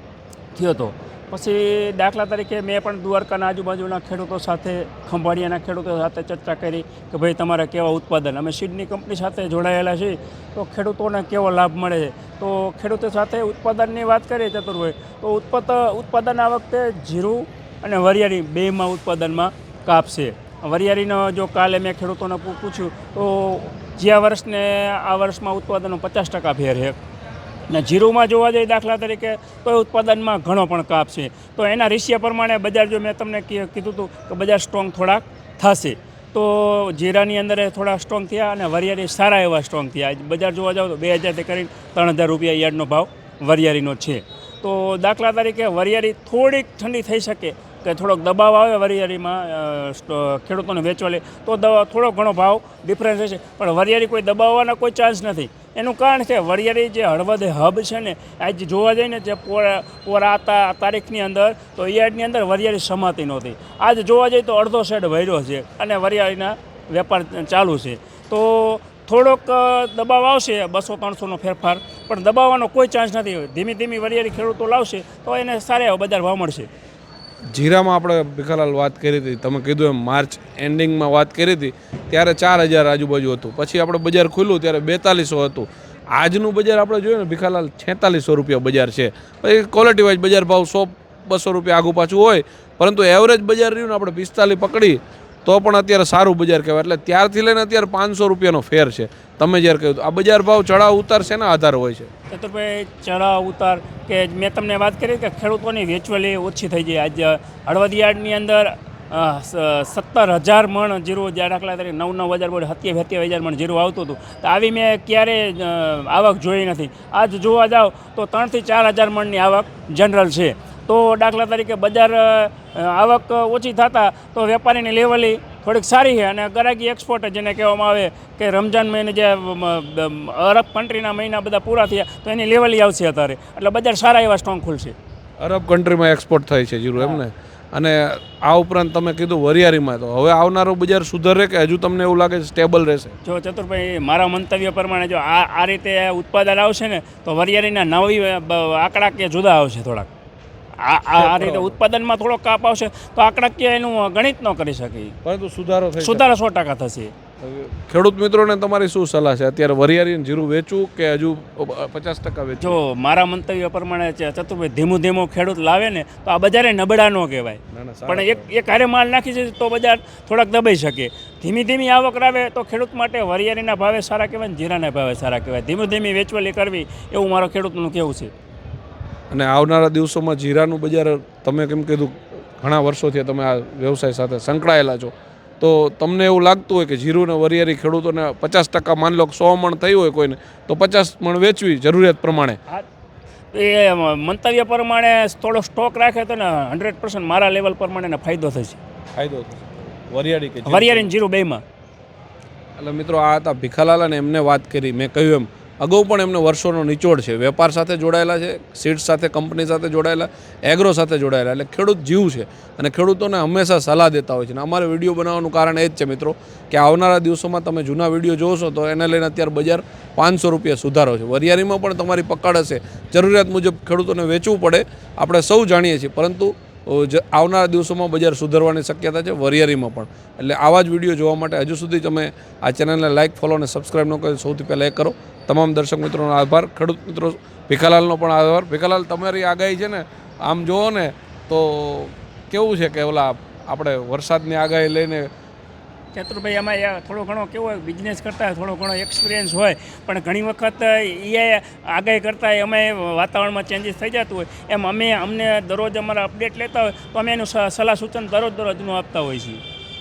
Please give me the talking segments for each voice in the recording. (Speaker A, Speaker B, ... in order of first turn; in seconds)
Speaker A: 0.5-27.0, 27.7-76.7, 102.3-134.9, 143.2-150.1, 150.8-155.2, 156.0-157.1, 162.6-178.3, 193.5-198.8, 200.7-201.6, 246.2-259.6
Speaker B: 77.5-102.1, 135.4-143.2, 151.2-151.8, 155.2-156.3, 157.4-162.8, 167.7-168.5, 179.3-192.6, 199.2-201.1, 202.8-245.3